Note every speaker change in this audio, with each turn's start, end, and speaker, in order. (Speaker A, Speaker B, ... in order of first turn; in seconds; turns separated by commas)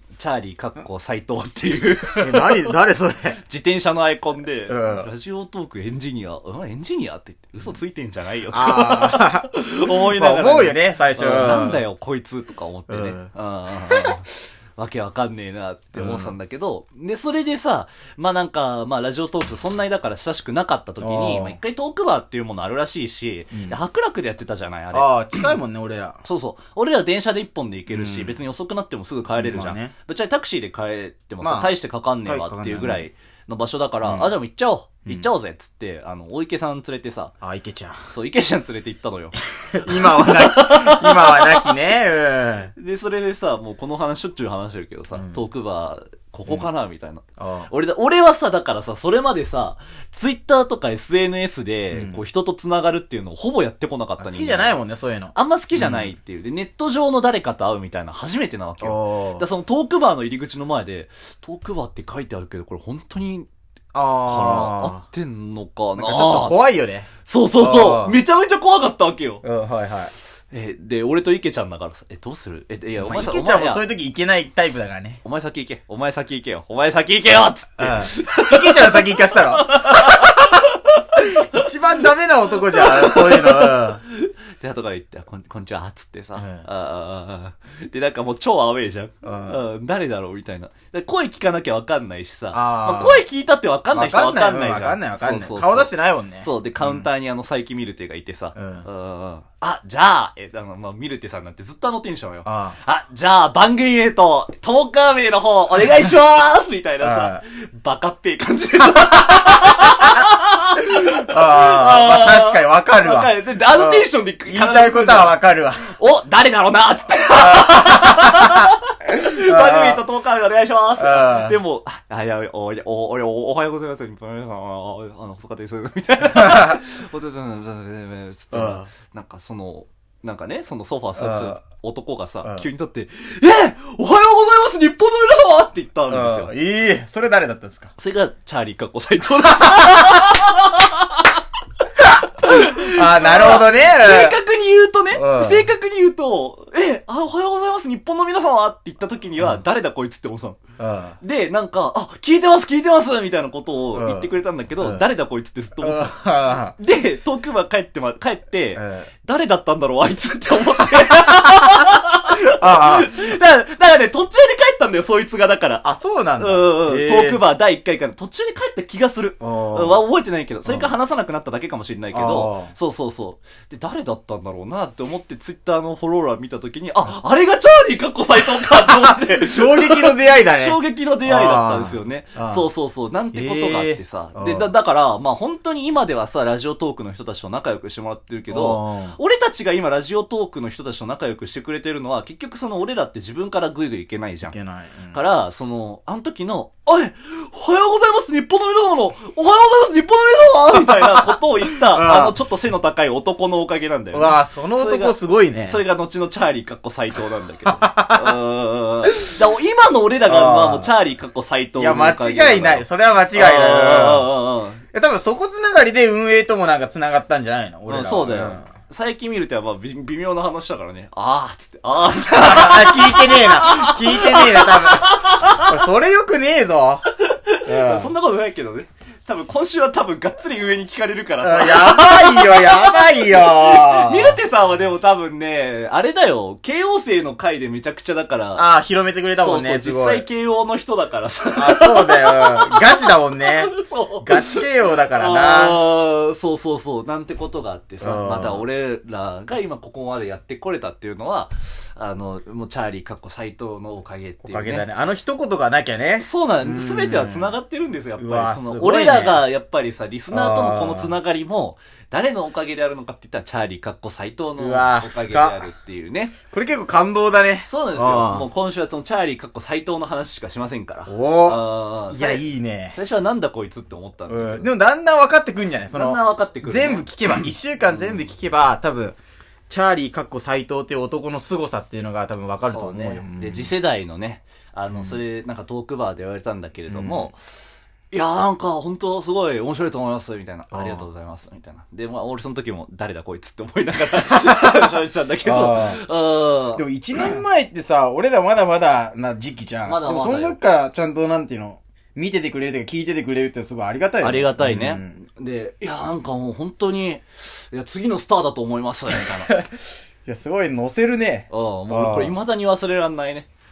Speaker A: 0.2-2.7, Speaker B: 2.1-3.4, Speaker A: 3.4-25.6, Speaker B: 4.7-5.1, Speaker B: 8.5-11.8, Speaker B: 12.9-13.3, Speaker B: 13.9-14.1, Speaker B: 15.9-16.3, Speaker B: 21.0-21.6, Speaker B: 23.5-23.8, Speaker B: 24.9-26.2, Speaker A: 26.2-37.3, Speaker B: 27.9-28.4, Speaker B: 29.4-29.9, Speaker B: 31.4-33.0, Speaker B: 34.0-34.3, Speaker B: 37.4-38.0, Speaker A: 38.1-41.7, Speaker B: 39.7-42.7, Speaker A: 42.8-54.8, Speaker B: 45.1-45.4, Speaker B: 47.4-47.7, Speaker B: 51.9-52.2, Speaker B: 54.2-56.1, Speaker A: 55.3-63.5, Speaker B: 58.8-59.5, Speaker B: 63.9-65.0, Speaker A: 64.2-66.6, Speaker B: 66.0-68.2, Speaker A: 67.2-69.4, Speaker B: 69.4-70.1, Speaker A: 70.5-73.8, Speaker B: 73.0-75.2, Speaker A: 75.2-81.6, Speaker B: 77.8-80.3, Speaker B: 81.2-84.0, Speaker A: 82.8-136.5, Speaker B: 86.3-86.7, Speaker B: 89.2-89.6, Speaker B: 92.5-93.2, Speaker B: 93.9-97.1, Speaker B: 98.5-98.9, Speaker B: 102.4-102.8, Speaker B: 107.0-107.4, Speaker B: 110.9-115.9, Speaker B: 117.3-120.0, Speaker B: 121.0-121.6, Speaker B: 126.2-126.8, Speaker B: 128.5-128.9, Speaker B: 131.2-131.6, Speaker B: 132.4-132.7, Speaker B: 136.1-137.9, Speaker A: 138.0-141.4, Speaker A: 142.0-150.6, Speaker B: 142.4-144.4, Speaker B: 145.1-145.7, Speaker B: 150.8-151.2, Speaker A: 151.2-165.8, Speaker B: 153.9-155.0, Speaker B: 155.8-156.8, Speaker B: 158.7-159.1, Speaker B: 162.3-163.1, Speaker B: 165.8-167.4, Speaker A: 166.4-194.6, Speaker B: 169.4-170.0, Speaker B: 170.6-170.9, Speaker B: 172.1-172.7, Speaker B: 178.8-182.7, Speaker B: 183.3-184.7, Speaker B: 188.5-189.2, Speaker B: 194.4-195.2, Speaker A: 195.1-205.2, Speaker B: 201.7-202.4, Speaker B: 204.1-205.8, Speaker A: 205.7-214.8, Speaker B: 207.6-208.4, Speaker B: 210.2-210.9, Speaker B: 211.7-214.3, Speaker B: 214.9-218.7, Speaker A: 217.9-225.7, Speaker B: 222.2-227.0, Speaker A: 227.2-238.6, Speaker B: 227.6-228.1, Speaker B: 231.4-234.4, Speaker B: 238.6-240.2, Speaker A: 239.4-254.8, Speaker B: 241.5-245.8, Speaker B: 248.0-248.6, Speaker B: 254.4-257.6, Speaker A: 256.2-266.4, Speaker B: 258.2-259.4, Speaker B: 260.3-261.1, Speaker B: 264.6-265.6, Speaker B: 266.5-268.5, Speaker A: 267.6-272.4, Speaker B: 271.1-273.0, Speaker A: 272.9-274.7, Speaker B: 274.3-279.2, Speaker A: 275.9-278.2, Speaker B: 279.7-283.7, Speaker A: 282.7-287.5, Speaker B: 284.9-285.2, Speaker B: 286.9-287.3, Speaker A: 288.1-297.4, Speaker B: 290.7-291.1, Speaker B: 294.2-294.9, Speaker B: 295.4-296.0, Speaker B: 296.8-305.2, Speaker A: 299.8-300.6, Speaker A: 304.2-309.6, Speaker B: 309.1-312.4, Speaker A: 311.5-313.5